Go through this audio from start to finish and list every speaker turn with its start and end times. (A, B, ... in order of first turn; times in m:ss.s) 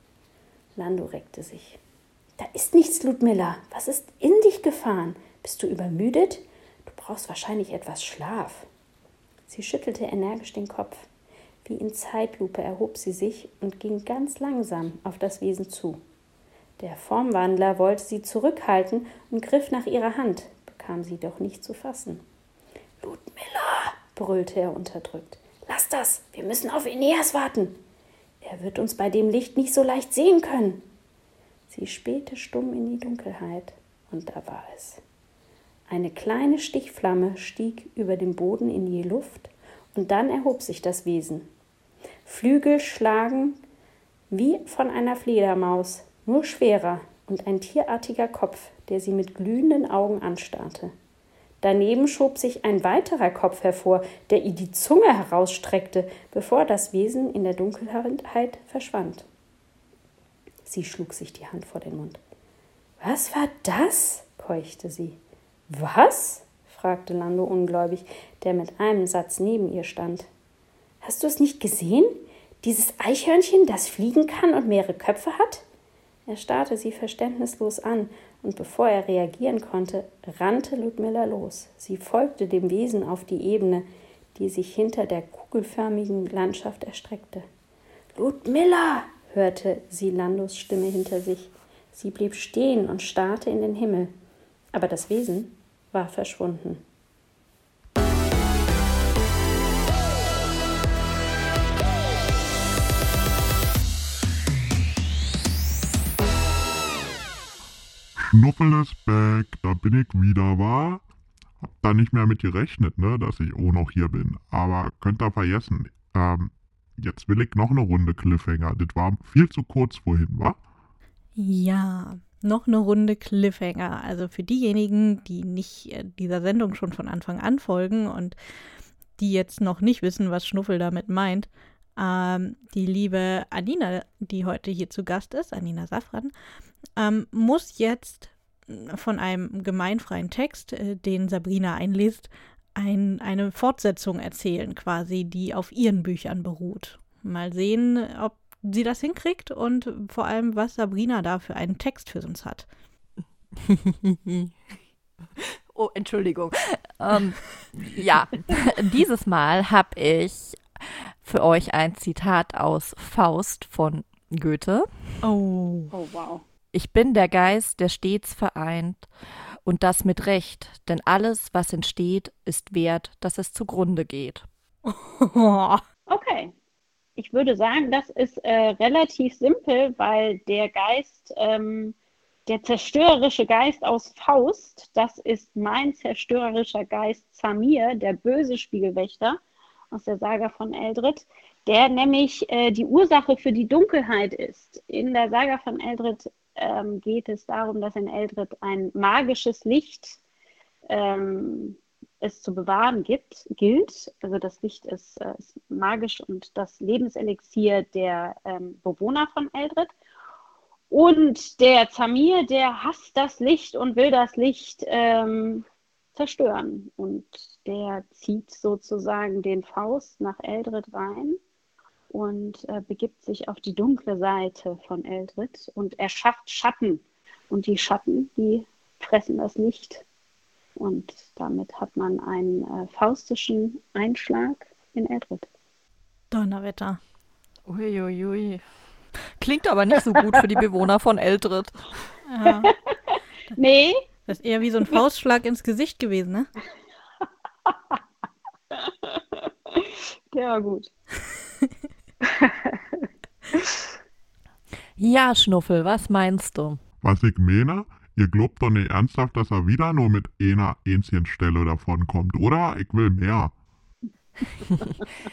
0:00.8-0:01.8 A
0:02.4-0:08.7 A
0:09.5-0:11.1 A
0:11.6-0:16.0 A
0:16.8-0:22.2 A
0:23.0-0:27.8 A
0:28.4-0:30.8 A
0:31.7-0:35.0 A
0:35.9-0:41.5 A
0:42.2-0:43.6 A
0:44.3-0:50.9 A
0:51.6-0:59.3 A
1:00.6-1:02.2 A
1:03.0-1:10.3 A
1:11.0-1:15.6 A
1:16.3-1:27.4 A
1:28.1-1:34.1 A
1:34.7-1:36.8 A
1:48.2-1:51.0 B
1:51.6-2:00.6 B
2:01.4-2:08.4 C
2:09.2-2:16.3 C
2:17.0-2:32.7 C
2:33.6-2:34.5 D
2:35.4-2:40.6 D
2:41.2-2:44.9 D
2:45.2-2:45.9 C
2:45.9-2:46.4 E
2:46.7-2:49.1 D
2:49.6-2:54.4 D
2:54.8-2:55.8 C
2:56.1-2:56.5 E
2:57.2-3:01.9 E
3:02.4-3:09.4 E
3:09.9-3:20.2 E
3:20.9-3:29.9 E
3:30.9-3:41.4 E
3:42.1-3:50.0 E
3:50.8-3:55.4 E
3:56.3-3:57.0 C
3:57.6-3:58.6 D
3:59.4-4:01.9 D
4:02.3-4:02.7 C
4:02.6-4:04.0 E
4:04.3-4:06.5 C
4:07.6-4:08.0 E
4:08.7-4:10.9 E
4:12.2-4:13.8 E
4:15.0-4:16.8 D
4:17.0-4:23.5 B